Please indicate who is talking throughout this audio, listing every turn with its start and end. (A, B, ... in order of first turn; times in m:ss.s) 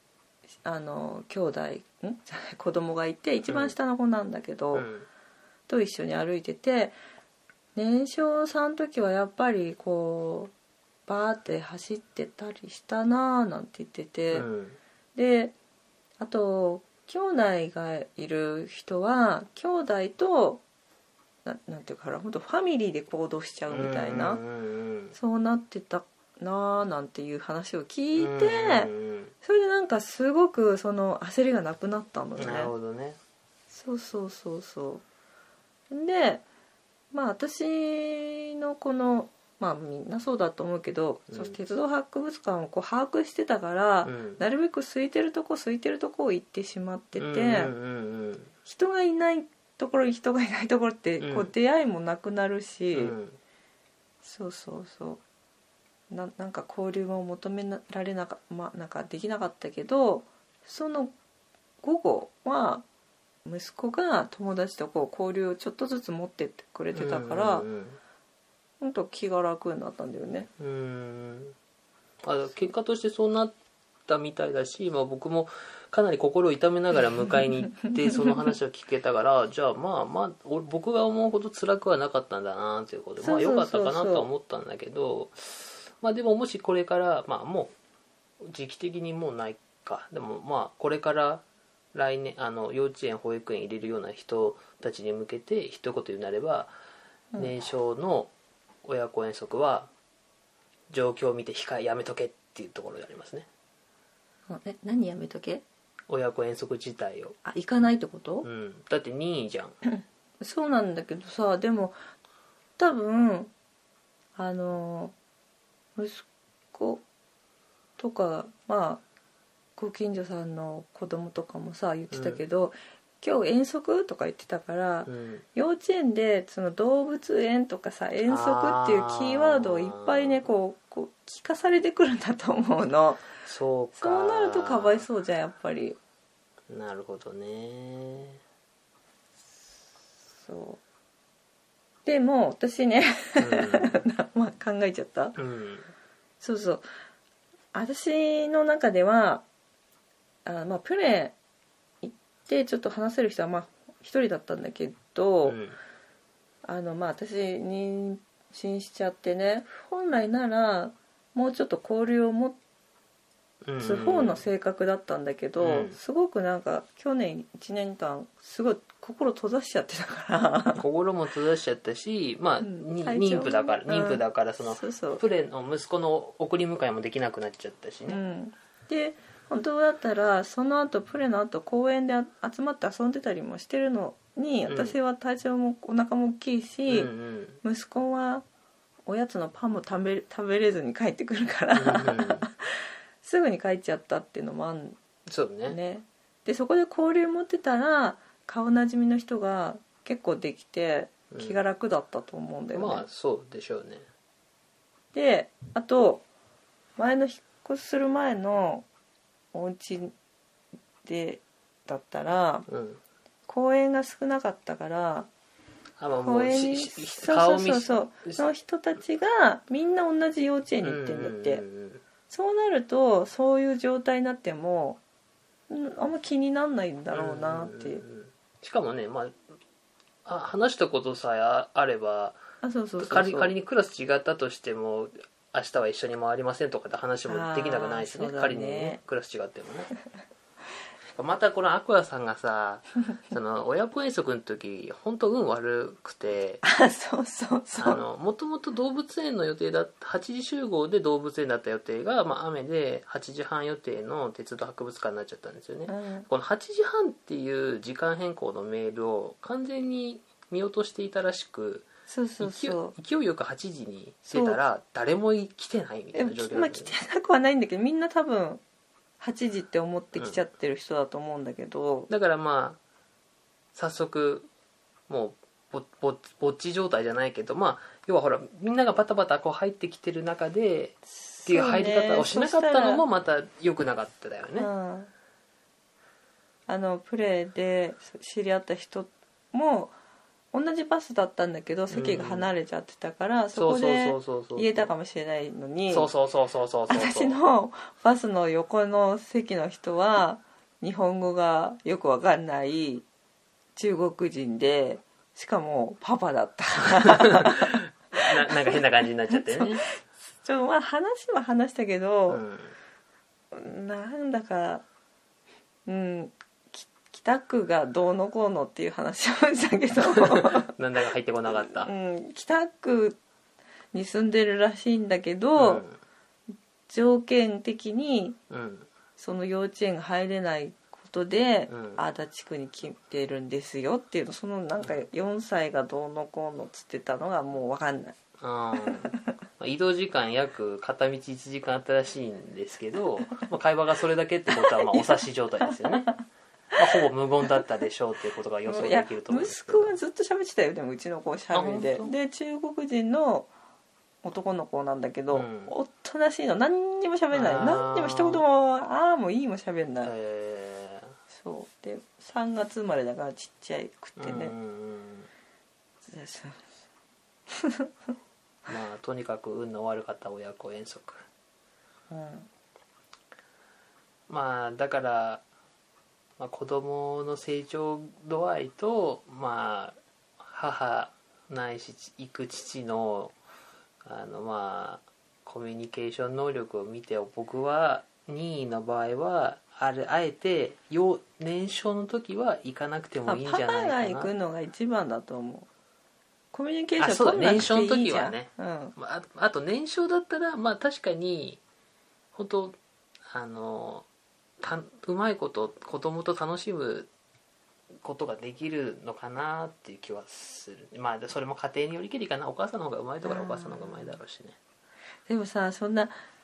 0:00.6-0:04.9 A
0:03.5-0:03.7 B
0:04.7-0:05.1 B
0:05.7-0:06.9 A
0:07.7-0:10.5 A
0:11.1-0:14.5 A
0:14.3-0:14.8 B
0:15.1-0:15.5 A
0:16.2-0:20.6 A
0:21.4-0:24.4 A
0:23.7-0:25.1 B
0:25.1-0:28.9 A
0:28.2-0:29.3 B
0:29.4-0:32.7 A
0:32.4-0:33.2 B
0:33.7-0:35.0 A
0:35.9-0:36.4 A
0:37.1-0:47.7 A
0:41.3-0:41.6 B
0:44.0-0:44.4 B
0:47.2-0:48.5 B
0:48.6-0:53.2 A
0:51.2-0:51.5 B
0:52.9-0:53.4 B
0:54.2-0:55.2 A
0:56.1-1:01.1 A
1:01.8-1:02.8 A
1:03.4-1:07.7 A
1:06.9-1:08.0 B
1:08.8-1:10.5 A
1:10.6-1:11.5 B
1:12.2-1:13.5 B
1:14.1-1:27.7 B
1:17.7-1:18.4 A
1:23.2-1:24.3 A
1:28.4-1:36.7 B
1:37.4-1:38.3 B
1:38.8-1:39.9 B
1:40.9-1:43.5 B
1:44.5-1:45.6 A
1:46.1-1:47.4 B
1:47.4-1:48.5 A
1:48.4-1:49.7 B
1:49.8-1:52.0 A
1:52.8-1:53.5 A
1:54.4-1:55.1 A
1:56.0-1:57.0 A
1:58.0-1:59.0 A
1:59.8-2:13.2 A
2:02.1-2:02.4 B
2:05.0-2:05.4 B
2:08.3-2:10.4 B
2:13.4-2:15.0 B
2:14.0-2:16.0 A
2:16.7-2:18.4 B
2:20.4-2:20.8 A
2:22.0-2:25.4 A
2:23.4-2:24.0 B
2:25.4-2:25.9 B
2:26.4-2:26.8 A
2:27.7-2:29.4 A
2:30.4-2:31.4 A
2:32.0-2:35.6 A
2:35.4-2:35.8 B
2:36.6-2:42.6 A
2:43.6-2:44.4 B
2:43.8-2:50.8 A
2:45.6-2:46.0 B
2:50.8-2:58.2 B
2:52.6-2:55.2 A
2:58.1-3:07.1 A
3:04.7-3:05.0 B
3:06.9-3:07.6 B
3:07.6-3:08.4 A
3:09.0-3:15.0 A
3:11.8-3:12.5 B
3:15.3-3:15.8 B
3:15.7-3:23.0 A
3:21.3-3:21.6 B
3:22.7-3:24.0 B
3:25.1-3:26.2 A
3:27.0-3:28.8 A
3:29.5-3:30.1 A
3:31.0-3:32.6 A
3:32.7-3:33.0 B
3:33.5-3:35.3 A
3:36.0-3:38.4 B
3:36.2-3:41.6 A
3:40.8-3:42.0 B
3:42.3-3:45.0 A
3:45.7-3:48.0 A
3:47.1-3:49.4 B
3:50.2-3:52.4 B
3:52.6-3:53.5 A
3:53.0-3:59.9 B
3:57.3-3:59.0 A
4:01.1-4:06.6 B
4:06.6-4:08.0 A
4:07.8-4:21.9 B
4:15.9-4:16.3 A
4:22.1-4:22.9 A
4:22.4-4:26.9 B
4:24.3-4:24.6 A
4:26.1-4:28.6 A
4:29.2-4:32.1 A
4:32.1-4:32.8 B
4:33.7-4:34.5 B
4:35.1-4:44.7 B
4:41.2-4:43.0 A
4:44.6-4:45.1 A
4:46.7-4:49.9 A
4:50.5-4:56.1 A
4:51.9-4:52.5 B
4:53.5-4:54.9 B
4:55.9-4:57.4 B
4:56.9-5:03.0 A
5:03.8-5:12.4 A
5:07.0-5:09.8 B
5:12.3-5:12.7 B
5:13.5-5:14.8 A
5:15.8-5:20.7 A
5:20.0-5:21.9 B
5:21.5-5:23.2 A
5:23.9-5:25.8 A
5:25.6-5:26.0 B
5:26.9-5:28.4 A
5:28.5-5:28.9 B
5:29.2-5:38.2 A
5:31.7-5:32.0 B
5:38.4-5:46.1 B
5:38.8-5:39.2 A
5:44.5-5:46.1 A
5:46.8-5:50.0 B
5:48.6-5:53.5 A
5:51.5-5:52.1 B
5:54.2-6:00.1 A
5:55.3-5:55.7 B
5:57.3-5:58.4 B
6:00.0-6:01.1 B
6:01.3-6:04.5 A
6:04.2-6:05.3 B
6:06.0-6:06.6 A
6:07.5-6:07.9 A
6:08.7-6:11.2 B
6:12.1-6:12.5 A
6:14.3-6:15.4 B
6:16.4-6:23.3 B
6:24.0-6:34.3 B
6:33.2-6:35.7 A
6:36.5-6:38.9 A
6:37.0-6:41.6 B
6:42.3-6:42.8 B
6:43.3-6:44.0 B
6:44.6-6:47.1 B
6:48.0-6:54.6 B
6:53.2-6:54.2 A
6:55.3-6:56.2 A